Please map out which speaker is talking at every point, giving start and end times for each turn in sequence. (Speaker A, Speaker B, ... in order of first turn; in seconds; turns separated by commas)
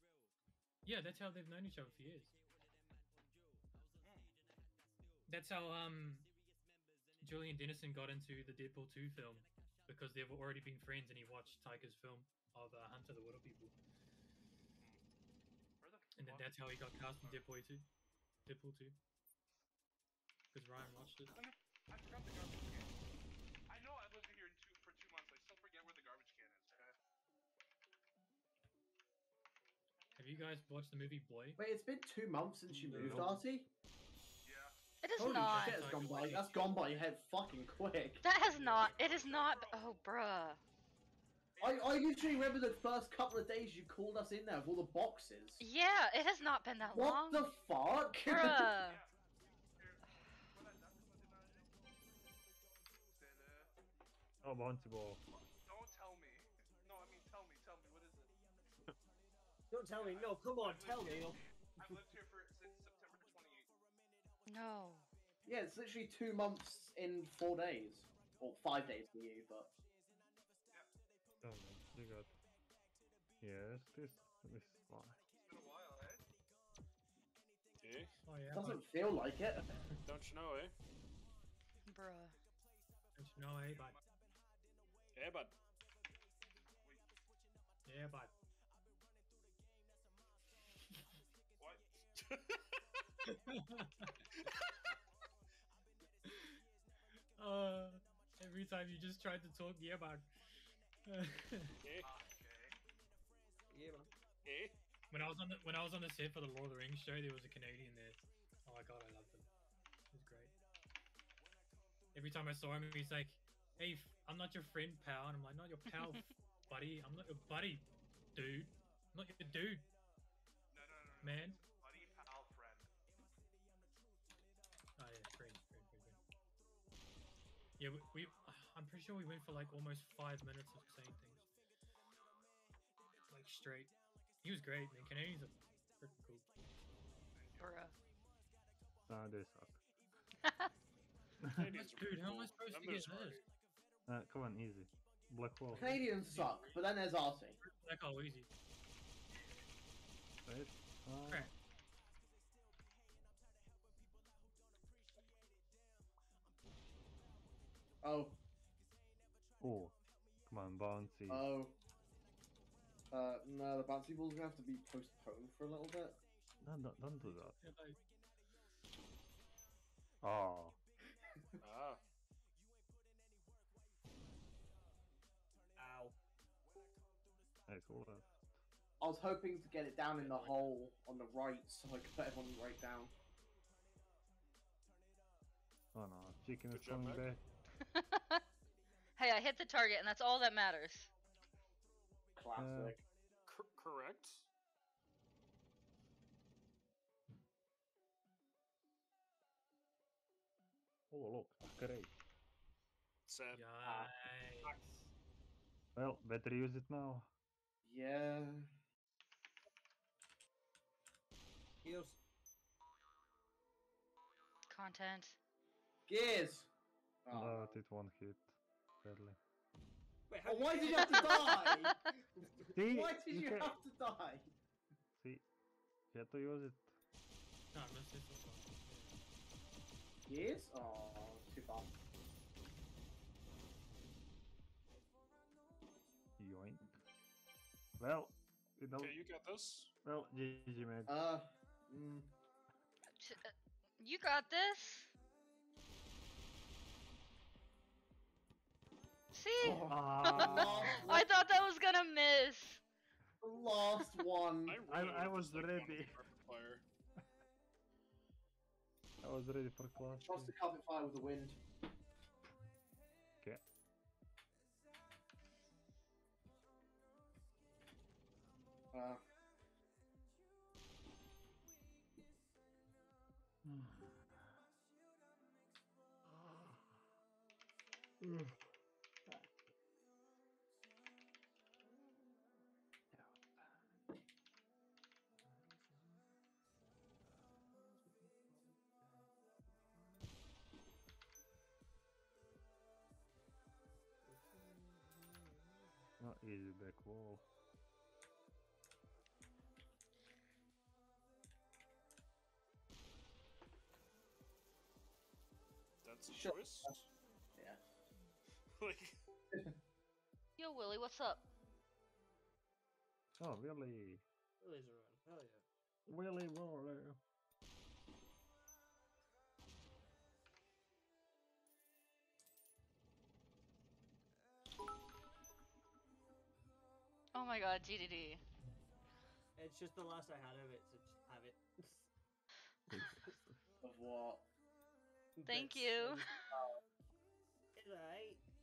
Speaker A: 0.8-2.3, Speaker B: 4.0-4.3, Speaker A: 5.3-6.3, Speaker A: 7.2-13.7, Speaker B: 15.8-16.6, Speaker A: 16.1-17.9, Speaker A: 18.4-19.0, Speaker A: 20.5-21.4, Speaker B: 21.3-22.9, Speaker B: 23.7-26.9, Speaker A: 30.1-31.6, Speaker C: 31.6-33.7, Speaker D: 32.7-33.4, Speaker E: 32.9-33.4, Speaker B: 34.4-34.8, Speaker F: 35.0-35.8, Speaker C: 35.2-38.2, Speaker A: 35.2-36.9, Speaker F: 38.2-40.6, Speaker B: 38.4-40.0, Speaker B: 41.5-41.9, Speaker C: 41.6-45.6, Speaker F: 45.6-47.5, Speaker C: 46.9-48.7, Speaker F: 48.2-49.0, Speaker B: 48.8-49.1, Speaker B: 49.7-51.7, Speaker B: 53.1-53.7, Speaker D: 54.4-55.2, Speaker B: 55.3-58.3, Speaker E: 59.7-61.4, Speaker B: 59.9-63.7, Speaker F: 64.5-65.1, Speaker C: 65.5-69.7, Speaker D: 71.4-72.3, Speaker D: 73.4-75.2, Speaker B: 75.3-76.2, Speaker G: 77.8-78.2, Speaker A: 78.2-78.9, Speaker C: 78.5-79.8, Speaker G: 80.0-80.7, Speaker F: 81.9-82.3, Speaker A: 83.2-84.0, Speaker B: 83.7-84.0, Speaker G: 85.1-85.5, Speaker A: 87.8-88.3, Speaker G: 92.1-92.6, Speaker A: 93.5-94.1, Speaker A: 96.2-96.5, Speaker A: 97.4-100.2, Speaker A: 101.0-101.8, Speaker G: 101.8-102.1, Speaker B: 102.0-102.8, Speaker E: 103.7-104.1, Speaker G: 104.4-104.8, Speaker A: 105.1-109.5, Speaker A: 110.1-110.5, Speaker A: 112.1-119.9, Speaker B: 120.7-122.9, Speaker A: 121.2-121.6, Speaker A: 125.0-126.2, Speaker A: 127.8-131.4, Speaker A: 133.3-136.5, Speaker B: 137.3-137.8, Speaker F: 137.6-137.9, Speaker D: 139.1-139.8, Speaker F: 140.4-140.7, Speaker G: 141.5-143.4, Speaker A: 141.7-143.4, Speaker D: 144.1-146.0, Speaker A: 145.7-146.7, Speaker C: 145.7-147.6, Speaker G: 146.4-146.7, Speaker A: 147.6-148.5, Speaker D: 150.4-151.5, Speaker A: 151.2-151.5, Speaker C: 158.0-158.4, Speaker D: 159.6-159.9, Speaker D: 160.5-161.5, Speaker C: 161.3-161.8, Speaker C: 163.1-166.2, Speaker D: 166.6-167.6, Speaker A: 167.2-168.0, Speaker D: 170.2-170.8, Speaker G: 171.6-172.0, Speaker E: 175.8-176.1, Speaker D: 177.7-178.4, Speaker C: 179.0-183.1, Speaker G: 180.2-180.7, Speaker D: 185.9-187.4, Speaker G: 186.7-187.3, Speaker F: 187.9-188.4, Speaker F: 189.2-191.1, Speaker C: 192.3-193.0, Speaker D: 192.6-193.0, Speaker G: 193.4-194.5, Speaker D: 201.1-202.1, Speaker G: 203.2-203.7, Speaker A: 203.5-204.7, Speaker D: 204.7-205.1, Speaker D: 205.9-207.3, Speaker C: 207.8-208.7, Speaker E: 211.8-212.2, Speaker F: 214.7-215.4, Speaker C: 216.1-216.7, Speaker C: 217.2-217.8, Speaker D: 217.3-219.4, Speaker E: 220.3-221.9, Speaker C: 220.4-222.0, Speaker D: 222.7-223.8, Speaker C: 222.8-224.5, Speaker D: 225.2-225.4, Speaker D: 226.1-226.9, Speaker A: 227.7-229.2, Speaker C: 230.3-231.9, Speaker D: 236.4-237.0, Speaker D: 238.0-239.2, Speaker G: 238.9-239.9, Speaker D: 240.0-241.2, Speaker C: 241.1-242.3, Speaker F: 243.2-245.1, Speaker F: 249.3-252.8, Speaker C: 249.6-251.3, Speaker D: 249.9-251.2, Speaker C: 253.4-254.8, Speaker G: 254.7-256.8, Speaker D: 254.9-256.2, Speaker D: 259.2-260.5, Speaker C: 260.2-261.6, Speaker C: 268.9-269.2, Speaker D: 273.6-274.5, Speaker D: 276.3-277.0, Speaker D: 278.2-278.6, Speaker D: 279.2-279.5, Speaker D: 283.1-284.0, Speaker E: 294.2-295.9, Speaker D: 296.2-297.4, Speaker G: 306.0-306.9, Speaker C: 306.3-307.1, Speaker C: 307.6-307.8, Speaker G: 308.7-309.2, Speaker F: 310.6-311.4, Speaker D: 313.4-314.2, Speaker E: 314.6-315.6, Speaker D: 316.1-317.2, Speaker F: 327.3-328.4, Speaker E: 329.6-332.1, Speaker D: 332.9-333.6, Speaker C: 333.8-334.4, Speaker E: 335.4-336.3, Speaker F: 335.4-336.5, Speaker C: 336.5-336.8, Speaker E: 337.8-338.4